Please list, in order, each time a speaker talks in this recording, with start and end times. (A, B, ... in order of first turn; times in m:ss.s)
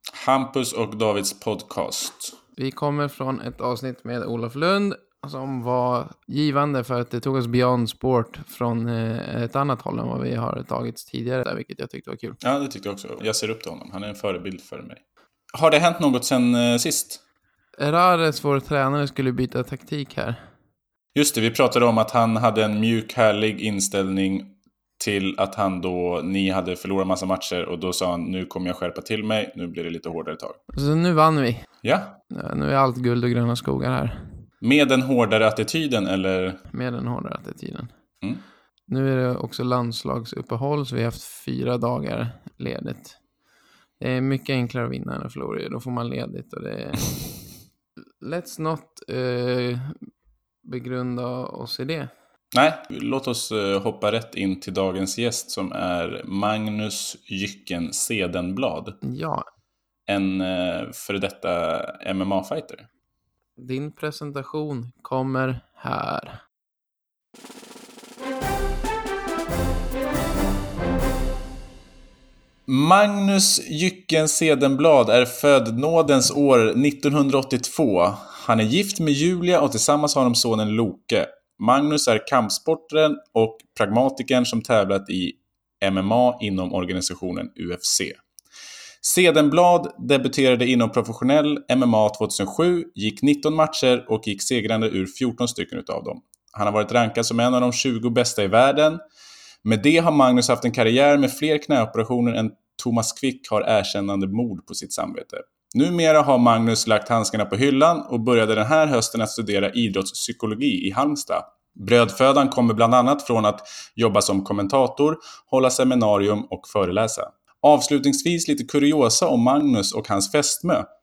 0:00.1-0:02.4 A
0:02.6-0:12.4 B
0:12.4-0:15.0 A
0:15.5-0:17.2 A
0:17.8-0:20.4 B
0:21.1-0:30.6 A
0:30.7-0:31.6 B
0:31.8-0:32.2 A
0:32.3-0:34.2 B
0:34.6-0:36.6 A
0:36.7-0:37.9 B
0:38.9-0:43.2 B
0:44.0-0:47.2 B
0:48.2-0:49.9 B
0:50.6-0:52.1 B
0:52.5-0:59.0 A
0:59.0-0:59.4 B
1:00.1-1:02.9 A
1:03.6-1:06.4 B
1:12.7-1:28.2 A
1:29.0-1:39.0 A
1:39.6-2:00.9 A